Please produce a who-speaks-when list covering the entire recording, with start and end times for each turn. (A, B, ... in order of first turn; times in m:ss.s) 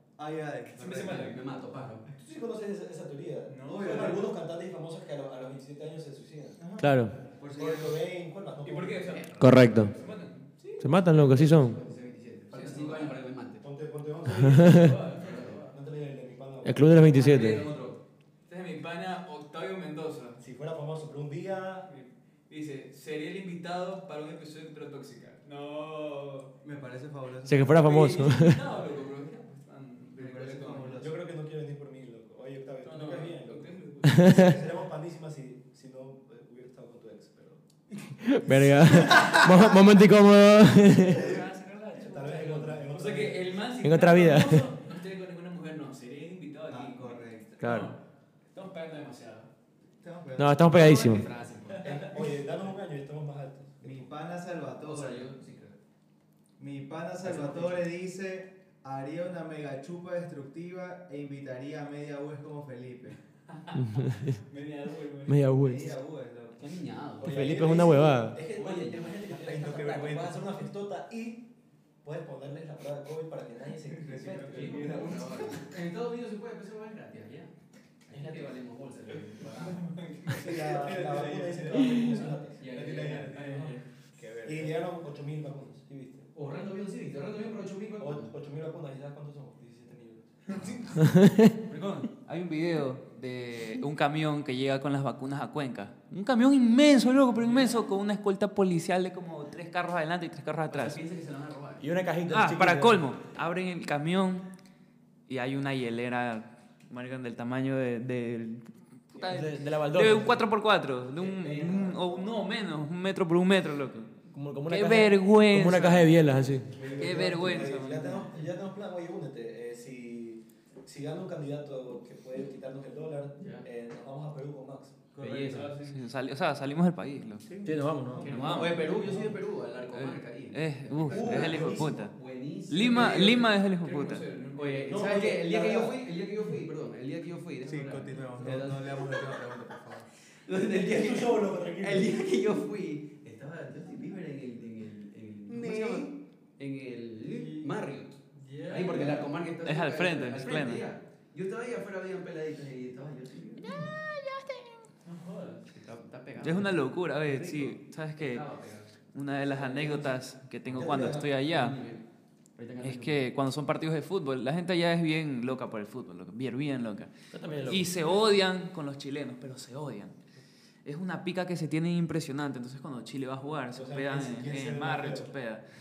0:00.2-0:01.3 A
0:00.8-0:01.4 B
0:00.9-0:02.0 C
0:02.2-0:06.6 D
0:03.5-0:04.1 B
0:03.6-0:04.3 A
0:06.6-0:08.0 A
0:06.8-0:07.1 E
0:07.5-0:09.2 D
0:08.6-0:10.5 B
0:09.4-0:09.9 E
0:10.6-0:13.6 C
0:10.8-0:11.8 E
0:11.4-0:11.9 D
0:12.5-0:13.2 B
0:13.6-0:15.1 D
0:14.5-0:14.8 E
0:14.5-0:15.6 B
0:14.8-0:15.7 C
0:15.6-0:17.4 D
0:16.6-0:17.6 E
0:17.0-0:18.0 C
0:17.3-0:17.6 B
0:18.5-0:20.4 B
0:20.4-0:21.9 D
0:21.9-0:26.5 B
0:26.6-0:28.4 A
0:27.4-0:28.6 E
0:27.8-0:31.1 B
0:30.1-0:31.2 A
0:31.0-0:37.6 D
0:32.8-0:34.6 B
0:34.2-0:34.5 E
0:38.2-0:41.4 E
0:38.9-0:39.6 A
0:41.1-0:48.0 B
0:41.1-0:41.4 D
0:42.0-0:43.6 D
0:43.8-0:44.6 E
0:46.7-0:47.6 A
0:47.6-0:47.9 E
0:48.5-0:49.5 B
0:50.0-0:51.2 A
0:50.4-0:51.2 E
0:50.6-0:51.8 C
0:51.6-0:52.1 B
0:51.8-0:54.1 D
0:53.8-0:55.3 A
0:54.8-0:55.8 C
0:56.6-1:03.2 A
0:57.2-0:57.8 C
1:03.5-1:05.5 B
1:03.7-1:04.4 E
1:05.3-1:05.9 E
1:05.5-1:06.7 A
1:06.6-1:07.8 C
1:07.2-1:11.5 D
1:07.2-1:08.4 E
1:08.4-1:09.3 C
1:09.3-1:10.5 A
1:12.0-1:15.1 D
1:13.9-1:15.6 A
1:14.4-1:17.5 C
1:14.5-1:15.0 B
1:18.1-1:19.9 C
1:20.0-1:20.5 B
1:20.2-1:24.7 A
1:20.3-1:22.6 D
1:21.9-1:22.3 B
1:22.6-1:23.8 C
1:23.4-1:23.7 B
1:24.4-1:26.3 D
1:26.3-1:28.3 C
1:28.0-1:30.6 D
1:31.0-1:31.4 E
1:31.7-1:32.0 C
1:32.1-1:41.0 F
1:40.7-1:41.8 C
1:41.8-1:43.0 E
1:42.3-1:44.5 F
1:45.3-1:54.1 F
1:49.2-1:50.5 E
1:51.2-1:52.3 C
1:54.3-1:56.8 E
1:54.6-1:56.3 F
1:56.7-1:57.7 A
1:56.8-1:57.3 C
1:56.8-1:58.3 F
1:56.9-2:04.9 D
2:03.4-2:03.6 C
2:05.1-2:05.7 A
2:05.2-2:05.7 C
2:05.4-2:06.0 B
2:05.8-2:07.5 F
2:07.4-2:07.8 A
2:07.6-2:08.4 E
2:08.2-2:13.5 C
2:08.2-2:08.9 F
2:09.9-2:12.1 F
2:11.0-2:12.1 D
2:12.7-2:14.2 F
2:13.6-2:15.1 B
2:14.6-2:33.8 C
2:14.9-2:16.0 D
2:17.6-2:20.1 A
2:20.5-2:22.2 D
2:25.5-2:26.2 A
2:28.3-2:29.2 B
2:29.6-2:30.8 F
2:33.6-2:34.9 F
2:35.0-2:35.7 B
2:35.7-2:40.2 C
2:36.4-2:38.4 F
2:39.1-2:41.8 F
2:40.7-2:41.3 D
2:40.8-2:43.3 C
2:42.8-2:47.1 F
2:47.3-2:47.9 E
2:47.6-2:50.2 F
2:50.8-2:55.6 F
2:53.7-2:55.3 D